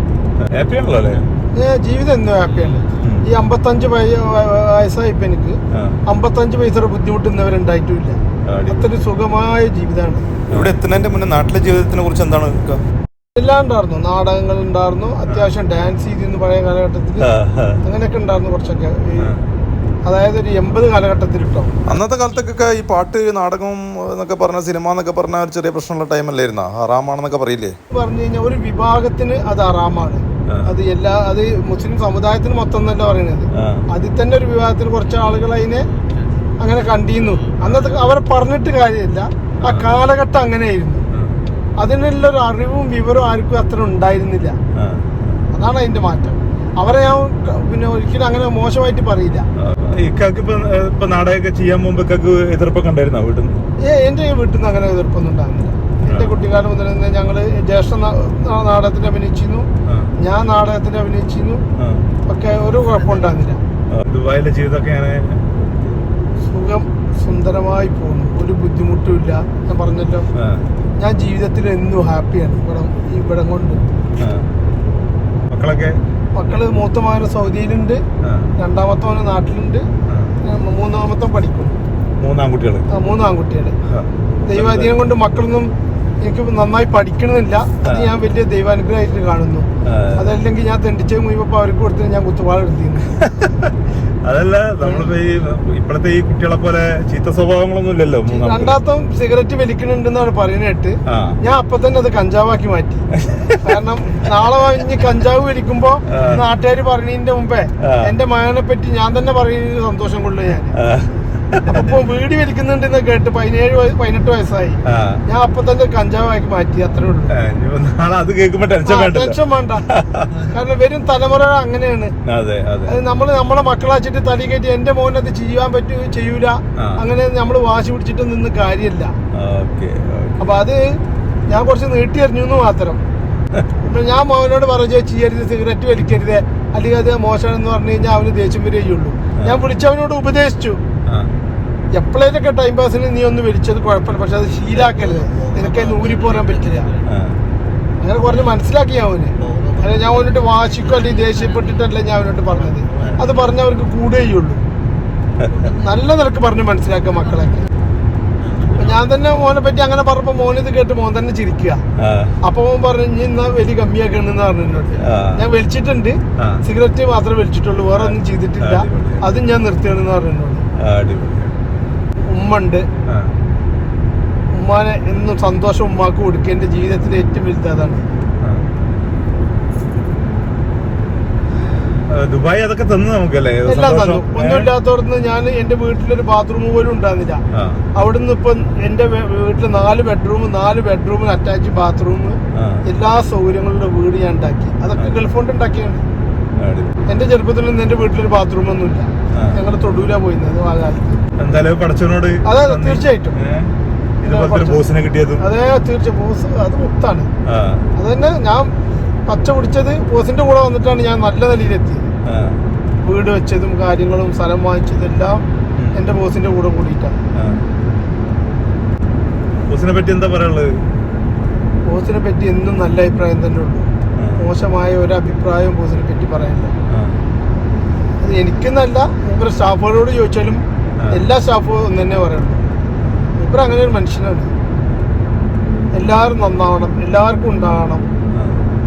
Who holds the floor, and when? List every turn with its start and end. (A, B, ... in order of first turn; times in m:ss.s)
0:00.4-0:01.2 A
0:01.5-0:10.2 B
0:03.0-0:03.3 A
0:05.7-0:06.0 A
0:08.5-0:08.9 A
0:10.5-0:10.8 A
0:10.5-0:12.3 C
0:12.1-0:12.8 A
0:13.4-0:17.3 B
0:17.2-0:17.8 A
0:17.8-0:19.3 B
0:19.2-0:19.4 A
0:20.1-0:21.7 B
0:21.9-0:27.8 C
0:27.9-0:35.8 B
0:30.5-0:30.7 A
0:33.5-0:33.9 A
0:36.6-0:41.0 B
0:37.6-0:38.0 A
0:39.6-0:39.9 A
0:41.1-0:41.4 A
0:41.8-0:44.6 B
0:44.8-0:45.4 A
0:45.5-0:49.5 B
0:49.6-0:53.5 A
0:53.8-1:01.6 B
0:56.1-0:56.4 A
0:59.9-1:00.1 A
1:01.8-1:02.0 A
1:02.3-1:03.6 B
1:03.9-1:05.7 A
1:06.5-1:10.3 B
1:10.4-1:10.7 A
1:11.0-1:13.8 B
1:14.1-1:14.4 A
1:15.5-1:16.0 A
1:16.4-1:18.0 B
1:18.2-1:18.5 A
1:18.6-1:19.9 B
1:20.1-1:20.4 A
1:20.4-1:21.8 B
1:22.2-1:22.9 A
1:22.9-1:23.8 B
1:23.8-1:25.0 A
1:24.5-1:33.1 B
1:27.8-1:28.1 A
1:29.8-1:30.3 A
1:33.2-1:33.7 A
1:34.2-1:38.8 A
1:34.8-1:35.1 B
1:38.3-1:43.0 B
1:41.1-1:41.4 A
1:43.1-1:43.8 A
1:43.6-1:50.8 B
1:46.1-1:46.4 A
1:47.8-1:48.1 A
1:50.8-1:52.0 A
1:51.7-1:57.3 B
1:54.9-1:55.2 A
1:57.3-2:00.5 A
1:58.8-1:59.9 B
2:00.5-2:02.1 B
2:02.2-2:03.0 A
2:02.9-2:09.2 B
2:09.3-2:10.5 A
2:10.4-2:10.8 B
2:11.5-2:13.0 B
2:13.8-2:20.8 B
2:19.4-2:19.6 A
2:22.0-2:26.9 B
2:27.0-2:27.4 A
2:28.0-2:34.6 B
2:35.4-2:35.7 A
2:35.7-2:37.7 B
2:38.7-2:41.8 B
2:42.0-2:42.4 A
2:42.4-2:50.6 B
2:45.0-2:45.5 A
2:47.9-2:49.4 A
2:50.8-2:51.5 A
2:52.3-2:52.9 B
2:53.1-2:53.3 A
2:54.5-2:58.1 B
3:02.1-3:04.7 A
3:03.7-3:07.4 B
3:07.5-3:07.8 A
3:08.0-3:16.0 B
3:12.5-3:12.8 A
3:16.6-3:17.1 A
3:17.1-3:21.2 B
3:19.3-3:19.6 A
3:21.4-3:23.7 A
3:22.4-3:23.4 B
3:24.2-3:25.4 A
3:24.2-3:24.9 B
3:25.4-3:27.3 B
3:27.5-3:27.9 A
3:28.0-3:28.7 B
3:29.3-3:32.1 B
3:32.3-3:32.6 A
3:33.0-3:35.4 B
3:35.9-3:37.2 B
3:37.4-3:37.6 A
3:39.7-3:40.7 A
3:41.9-3:46.7 B
3:44.2-3:44.5 A
3:46.9-3:47.2 A
3:48.2-3:52.7 B
3:51.0-3:51.3 A
3:53.4-3:54.5 B
3:56.0-3:58.0 B
3:58.3-3:58.6 A